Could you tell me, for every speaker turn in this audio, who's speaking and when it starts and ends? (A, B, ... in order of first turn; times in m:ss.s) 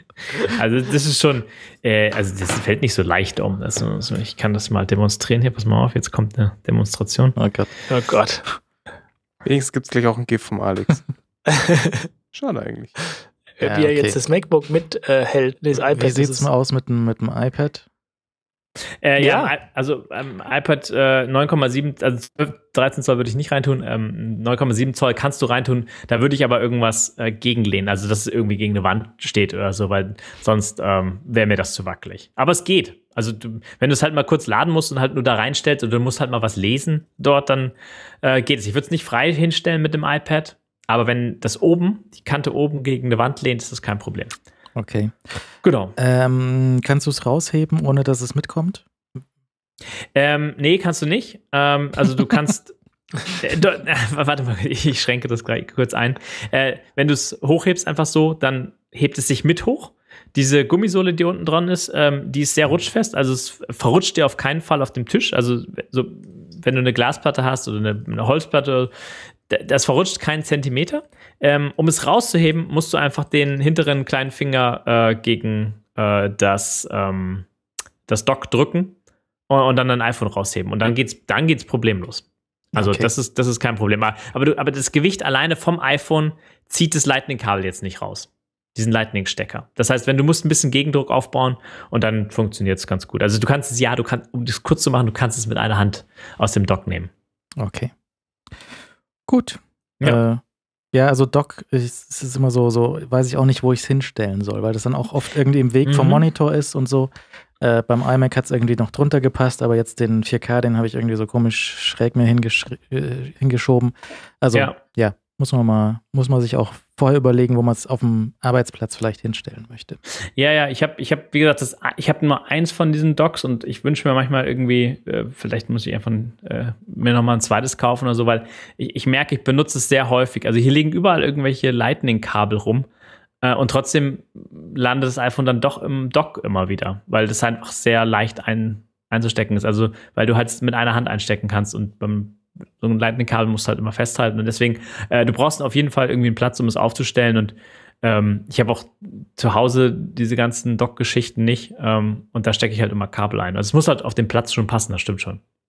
0:00.5-0:07.4 A
0:07.4-0:07.7 B
0:07.9-0:08.4 C
0:09.4-0:11.1 D
0:11.5-0:12.1 C
0:12.3-0:13.0 D
0:13.6-0:16.5 C
0:13.6-0:14.2 B
0:15.9-0:17.8 B
0:19.0-0:44.3 A
0:19.2-0:19.5 C
0:44.8-0:45.1 B
0:45.6-0:45.9 A
0:46.0-0:48.8 B
0:50.1-1:08.9 A
1:09.5-1:17.5 A
1:18.1-1:19.0 A
1:19.5-1:37.1 A
1:22.7-1:23.1 B
1:37.6-1:37.9 B
1:39.3-1:40.4 B
1:40.9-2:00.0 B
1:45.8-1:46.2 A
2:00.4-2:12.9 A
2:13.4-2:35.4 A